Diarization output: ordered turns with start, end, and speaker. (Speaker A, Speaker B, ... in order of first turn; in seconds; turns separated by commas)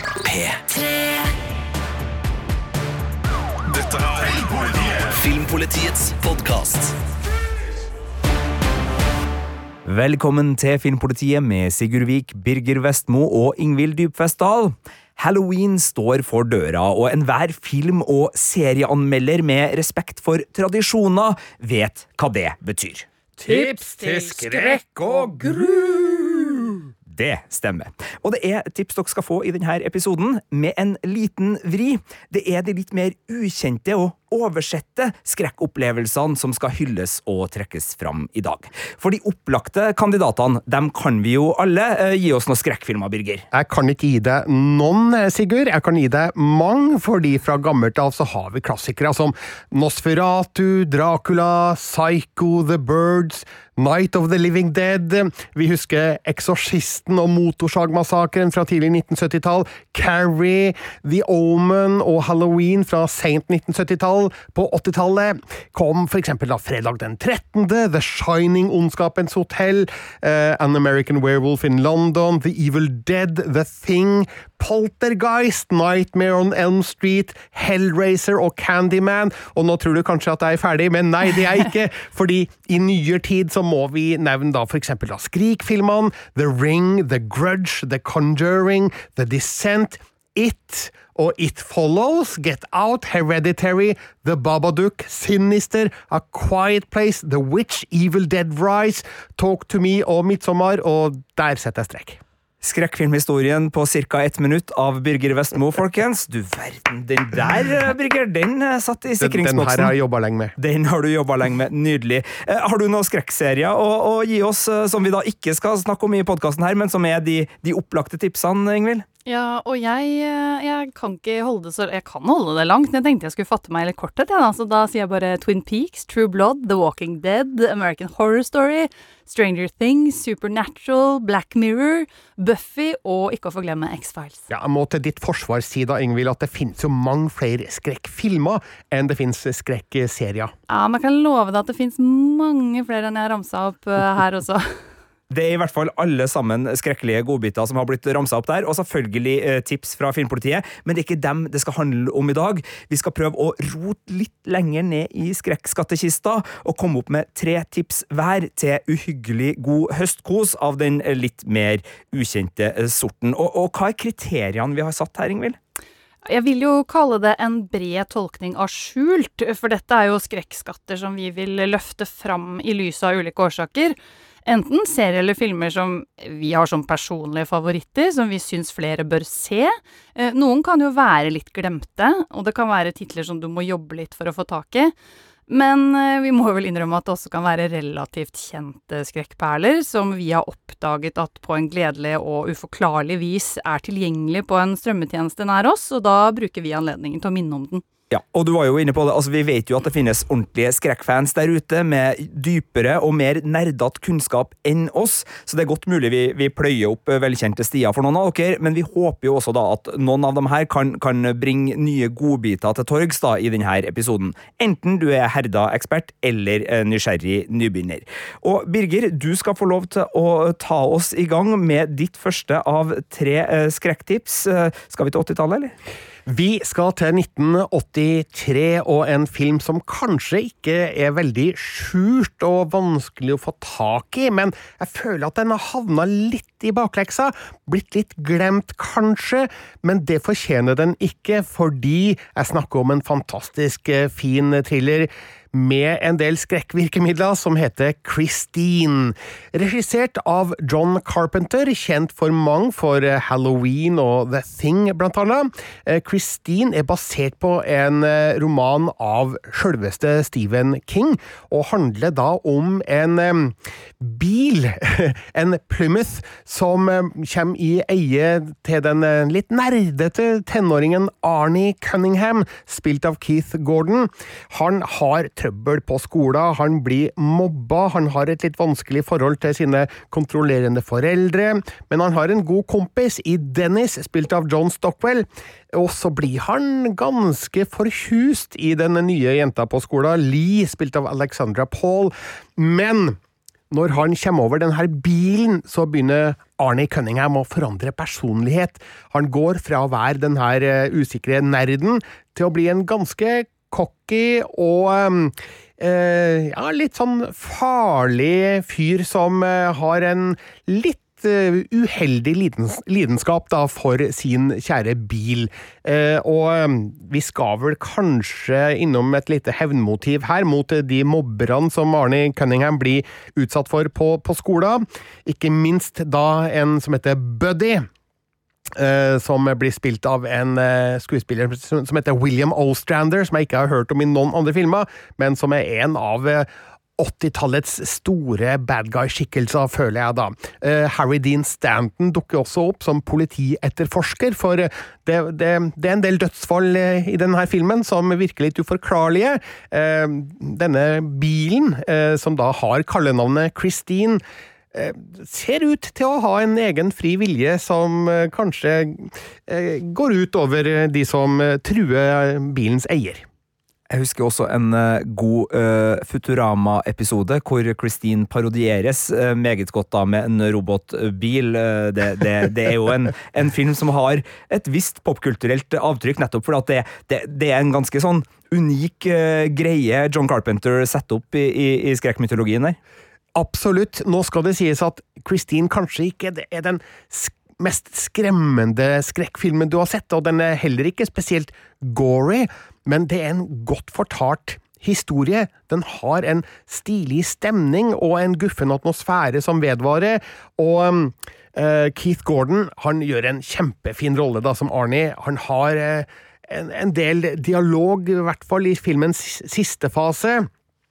Speaker A: 0.2-0.7, Speaker A: 3.7-6.9, Speaker B: 9.9-23.1, Speaker C: 23.4-26.8, Speaker D: 23.5-24.7, Speaker B: 27.1-43.4, Speaker C: 43.5-102.2, Speaker B: 102.6-109.9, Speaker C: 109.2-110.5, Speaker B: 110.6-119.0, Speaker D: 119.3-134.5, Speaker C: 134.5-140.5, Speaker D: 140.7-144.8, Speaker B: 145.3-165.6, Speaker D: 166.3-184.9, Speaker D: 185.5-197.8, Speaker B: 198.1-225.7, Speaker C: 226.3-293.2, Speaker C: 293.7-327.9, Speaker C: 328.7-354.2, Speaker C: 354.7-363.3, Speaker B: 363.9-382.8, Speaker C: 383.4-410.5